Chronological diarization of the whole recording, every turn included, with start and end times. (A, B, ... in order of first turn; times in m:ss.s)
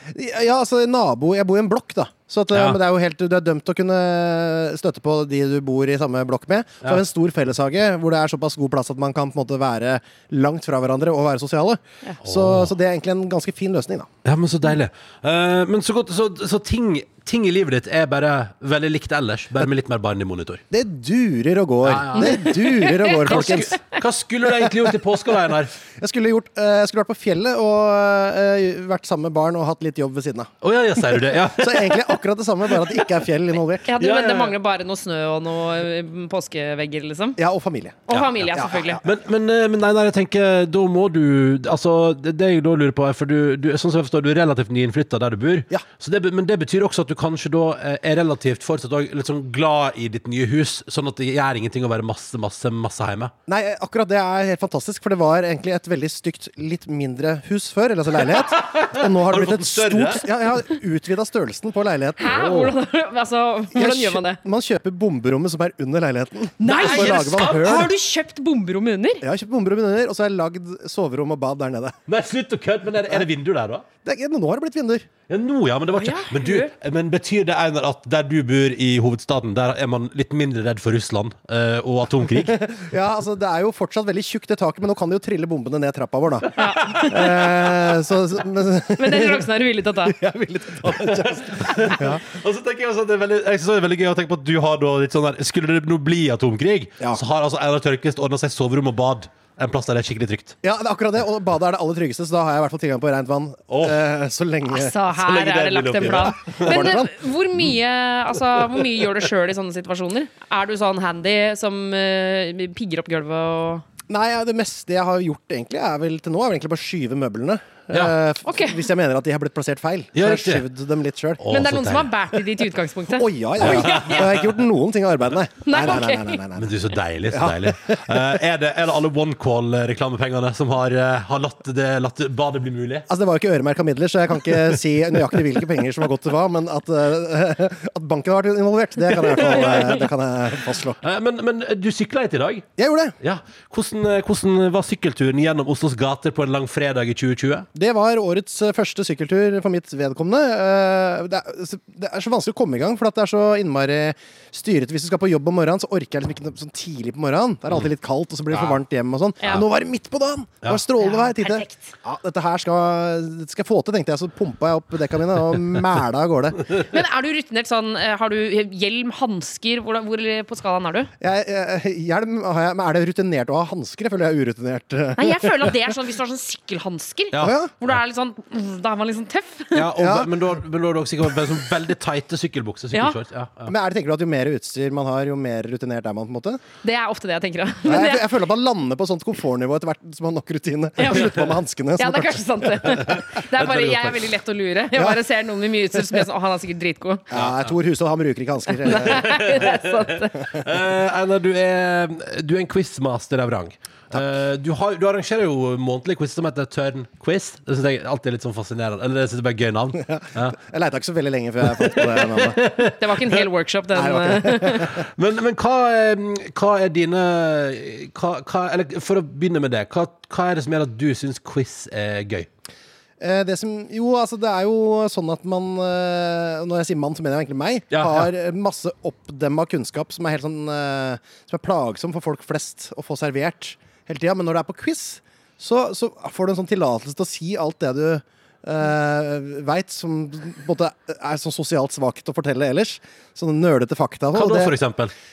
0:00.1-0:14.1 A
0:02.5-0:02.8 B
0:12.2-0:12.7 B
0:14.2-0:20.6 B
0:20.7-0:23.8 A
0:21.8-0:25.7 B
0:22.2-0:24.0 C
0:25.9-0:33.9 A
0:30.6-0:32.2 B
0:33.9-0:37.4 C
0:34.0-0:34.5 B
0:37.4-0:39.0 A
0:38.1-0:39.0 C
0:39.0-0:53.3 B
0:53.5-1:02.7 A
0:58.5-1:00.3 B
1:02.2-1:04.4 C
1:03.7-1:07.9 A
1:06.6-1:09.2 C
1:06.7-1:07.8 B
1:09.2-1:12.0 A
1:12.1-1:13.8 B
1:14.0-1:15.1 A
1:15.3-1:22.6 B
1:16.0-1:16.7 C
1:22.6-1:29.5 A
1:26.6-1:27.3 C
1:26.8-1:27.1 B
1:29.0-1:30.2 C
1:30.0-1:32.2 A
1:30.8-1:40.6 B
1:40.6-1:44.9 A
1:43.7-1:44.0 B
1:44.7-1:53.8 C
1:45.1-1:47.0 B
1:46.6-1:47.1 A
1:54.1-2:01.4 A
1:58.4-1:58.8 C
2:00.1-2:00.6 B
2:01.4-2:02.4 B
2:01.5-2:04.2 C
2:03.1-2:06.8 A
2:03.6-2:04.4 B
2:05.6-2:06.4 C
2:06.6-2:13.1 B
2:07.3-2:08.3 A
2:13.1-2:21.0 A
2:19.1-2:20.0 B
2:21.0-2:22.7 B
2:22.8-2:23.1 A
2:23.2-2:27.7 B
2:27.7-2:46.8 A
2:41.0-2:41.9 C
2:46.8-2:51.1 C
2:51.2-2:55.9 A
2:55.2-2:59.9 C
2:57.4-2:57.7 A
2:59.7-3:03.7 B
2:59.9-3:00.4 A
3:03.6-3:06.6 A
3:06.8-3:08.3 C
3:07.8-3:13.0 A
3:11.0-3:11.4 C
3:12.0-3:17.2 C
3:13.0-3:14.2 B
3:14.9-3:15.2 A
3:17.3-3:19.4 A
3:17.3-3:17.7 B
3:18.8-3:20.4 C
3:19.0-3:19.9 B
3:20.5-3:30.6 B
3:30.0-3:32.6 A
3:31.8-3:33.0 B
3:33.0-3:34.9 C
3:33.9-3:35.0 A
3:35.0-3:42.5 B
3:43.2-4:04.7 A
3:47.9-3:48.3 B
4:04.3-4:05.1 B